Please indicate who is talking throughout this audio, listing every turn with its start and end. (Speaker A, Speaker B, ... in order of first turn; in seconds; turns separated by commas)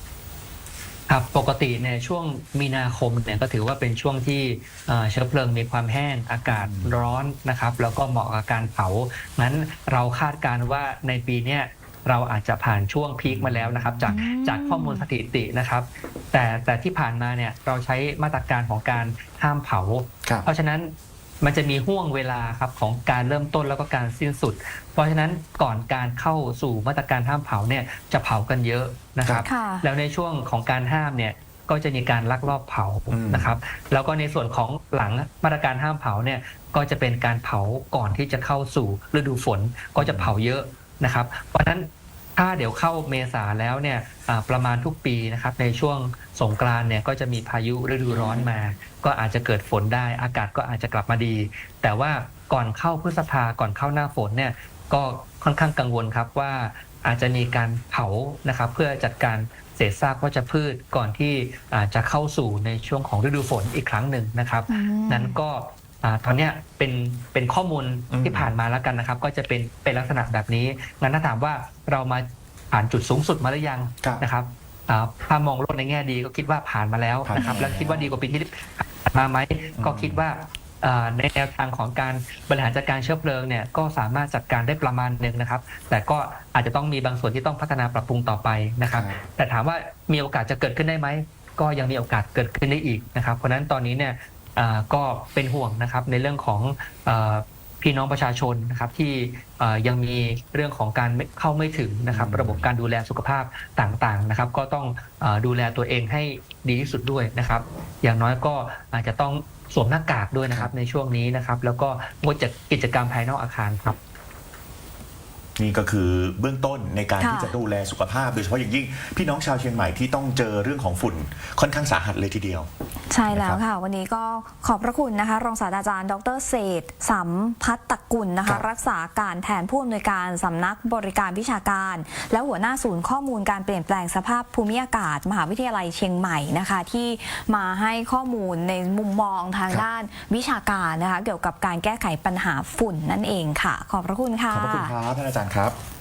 Speaker A: 1.1-114.0, Speaker B: 6.5-7.0, Speaker B: 13.2-14.1, Speaker C: 14.1-15.1, Speaker C: 29.4-29.9, Speaker B: 33.1-33.5, Speaker B: 40.0-40.3, Speaker B: 48.1-48.5, Speaker C: 64.7-65.4, Speaker B: 68.1-68.5, Speaker B: 77.2-78.1, Speaker C: 77.3-77.7, Speaker B: 79.8-80.2, Speaker B: 88.9-89.2, Speaker B: 102.1-102.7, Speaker B: 110.4-110.7, Speaker B: 115.6-122.7, Speaker C: 117.2-117.5, Speaker C: 123.1-144.9, Speaker B: 123.3-123.6, Speaker B: 144.5-145.8